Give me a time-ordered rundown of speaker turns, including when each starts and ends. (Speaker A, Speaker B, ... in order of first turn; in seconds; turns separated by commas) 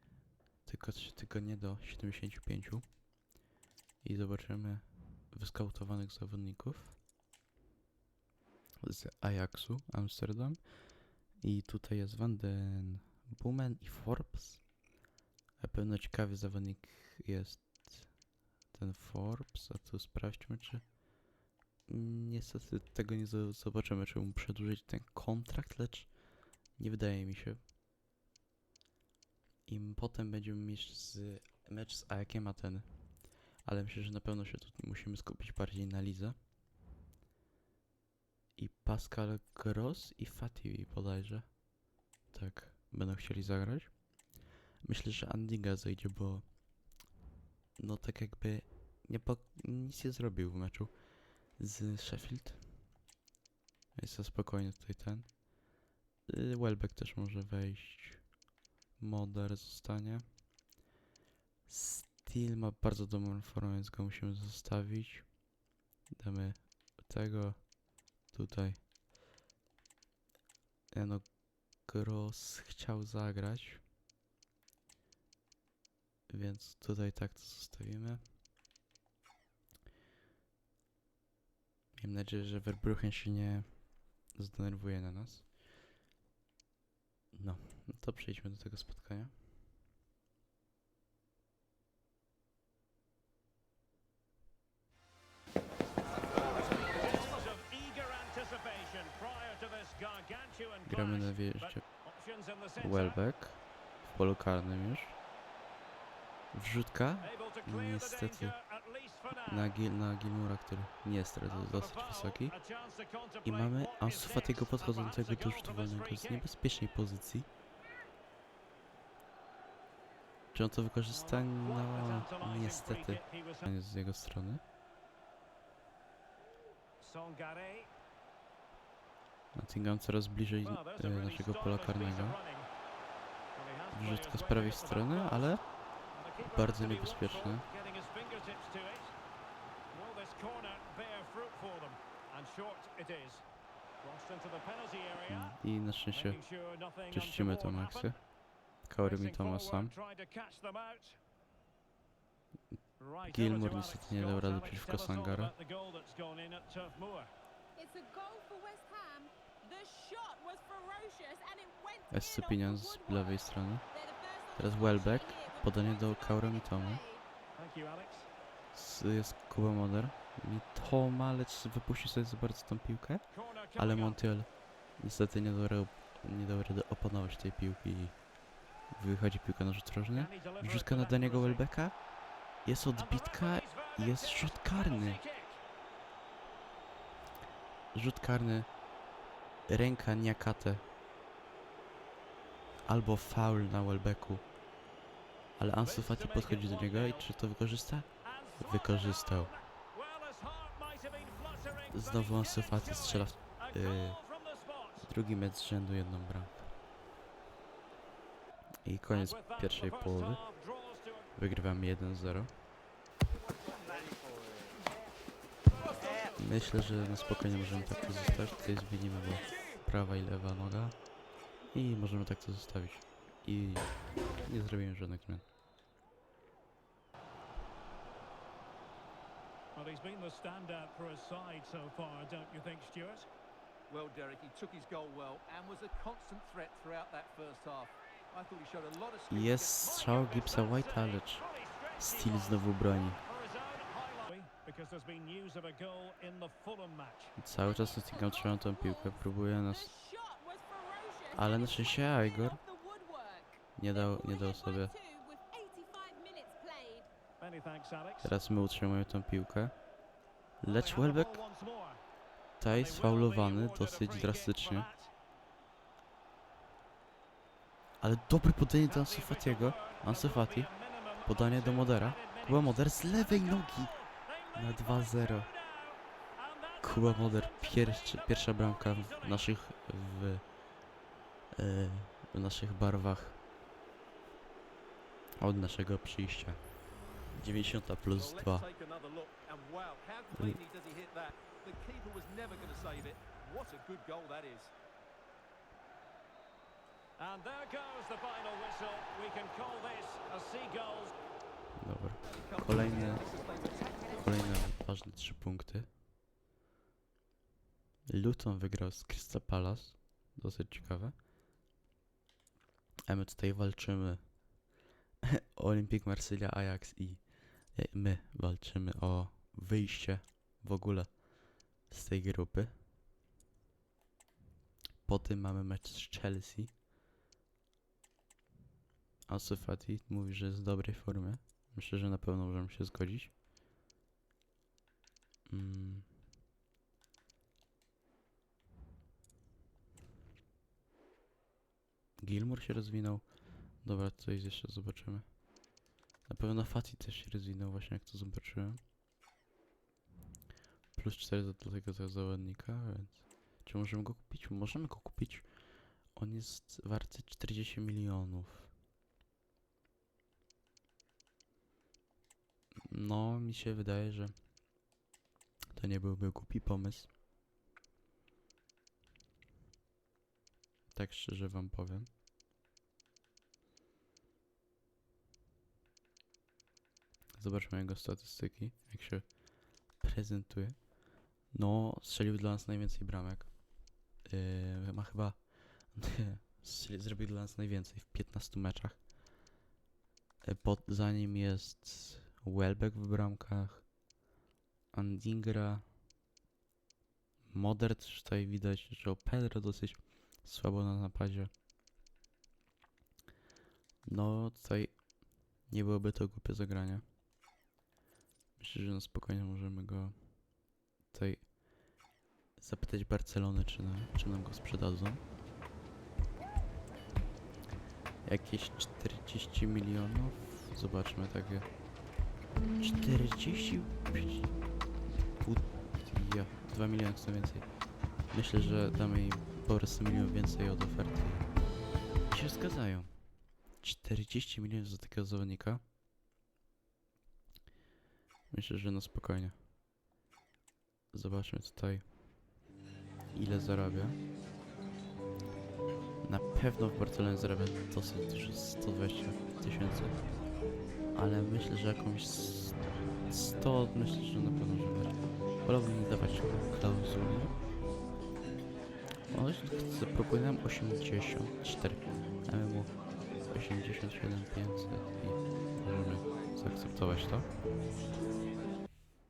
Speaker A: 0.7-2.8, Speaker A: 4.0-7.0, Speaker A: 8.8-10.7, Speaker A: 11.4-14.6, Speaker A: 15.6-18.1, Speaker A: 18.7-20.9, Speaker A: 21.9-26.1, Speaker A: 26.8-27.6, Speaker A: 29.7-32.9, Speaker A: 33.6-36.4, Speaker A: 38.6-41.6, Speaker A: 42.3-44.0, Speaker A: 44.8-46.4, Speaker A: 47.8-50.9, Speaker A: 51.5-52.7, Speaker A: 53.9-55.4, Speaker A: 56.3-58.3, Speaker A: 59.0-60.2, Speaker A: 61.7-65.3, Speaker A: 66.1-68.8, Speaker A: 70.9-73.8, Speaker A: 76.3-78.2, Speaker A: 82.0-83.7, Speaker A: 84.3-85.5, Speaker A: 87.3-89.3, Speaker B: 96.9-103.2, Speaker A: 100.8-101.8, Speaker A: 102.8-105.2, Speaker A: 106.5-108.5, Speaker B: 107.2-109.8, Speaker A: 109.5-112.5, Speaker B: 111.5-116.5, Speaker A: 113.4-117.5, Speaker A: 120.5-124.6, Speaker B: 121.1-123.7, Speaker B: 127.0-127.9, Speaker A: 129.5-132.4, Speaker B: 130.6-132.7, Speaker B: 133.5-139.1, Speaker A: 133.9-135.6, Speaker A: 136.4-137.6, Speaker B: 139.9-143.4, Speaker B: 144.0-145.6, Speaker A: 145.2-146.4, Speaker B: 146.1-148.2, Speaker A: 147.1-148.2, Speaker A: 148.9-149.9, Speaker B: 149.0-151.2, Speaker B: 153.0-157.3, Speaker A: 153.2-155.5, Speaker C: 157.8-167.2, Speaker A: 162.1-163.8, Speaker A: 164.6-167.0, Speaker B: 167.5-168.3, Speaker A: 168.7-178.3, Speaker B: 173.3-174.2, Speaker A: 178.9-182.0, Speaker B: 180.1-181.6, Speaker A: 182.6-185.2, Speaker B: 182.9-185.6, Speaker A: 187.9-188.7, Speaker A: 189.7-190.8, Speaker A: 192.9-194.4, Speaker A: 195.6-199.5, Speaker B: 195.8-197.3, Speaker B: 198.2-205.1, Speaker A: 201.9-204.2, Speaker A: 205.0-206.7, Speaker A: 208.8-210.4, Speaker B: 209.1-211.3, Speaker A: 211.3-212.5, Speaker A: 216.4-220.9, Speaker A: 221.7-225.4, Speaker B: 229.7-233.3, Speaker D: 233.9-239.8, Speaker A: 239.3-241.4, Speaker B: 239.8-247.3, Speaker A: 242.0-243.2, Speaker A: 247.4-249.9, Speaker C: 247.6-257.1, Speaker A: 251.3-252.6, Speaker A: 253.8-254.9, Speaker B: 257.4-258.3, Speaker A: 258.2-259.8, Speaker A: 260.6-261.4, Speaker B: 260.6-262.0, Speaker A: 262.6-264.9, Speaker B: 262.7-265.1, Speaker A: 268.0-270.7, Speaker B: 268.9-279.5, Speaker A: 271.2-273.9, Speaker A: 274.5-275.5, Speaker A: 276.8-280.5, Speaker A: 281.5-283.4, Speaker A: 285.4-286.6, Speaker A: 287.3-288.6, Speaker D: 288.1-294.7, Speaker B: 297.2-301.1, Speaker A: 301.8-303.2, Speaker D: 302.2-304.6, Speaker A: 304.1-305.9, Speaker A: 308.1-311.1, Speaker A: 313.1-314.4, Speaker A: 315.3-322.7, Speaker A: 325.0-326.7, Speaker A: 329.3-333.3, Speaker A: 335.5-336.1, Speaker A: 342.2-343.3, Speaker A: 343.8-345.3, Speaker A: 346.2-348.8, Speaker A: 350.9-358.7, Speaker A: 362.8-364.3, Speaker A: 365.7-367.1, Speaker A: 370.9-372.1, Speaker A: 377.4-380.9, Speaker A: 381.5-383.6, Speaker A: 384.2-389.0, Speaker A: 390.4-393.9, Speaker A: 394.9-395.8, Speaker A: 397.5-401.5, Speaker A: 404.0-405.1, Speaker A: 405.6-407.0, Speaker A: 408.6-410.1, Speaker A: 411.1-411.5, Speaker A: 412.6-415.2, Speaker A: 418.2-421.7, Speaker A: 422.8-424.5, Speaker A: 425.4-427.6, Speaker A: 428.3-431.5, Speaker A: 432.3-433.1, Speaker A: 433.8-435.8, Speaker A: 438.5-439.6, Speaker A: 441.1-442.0, Speaker A: 443.3-444.2, Speaker A: 446.2-450.2, Speaker A: 451.1-457.5, Speaker A: 459.3-467.5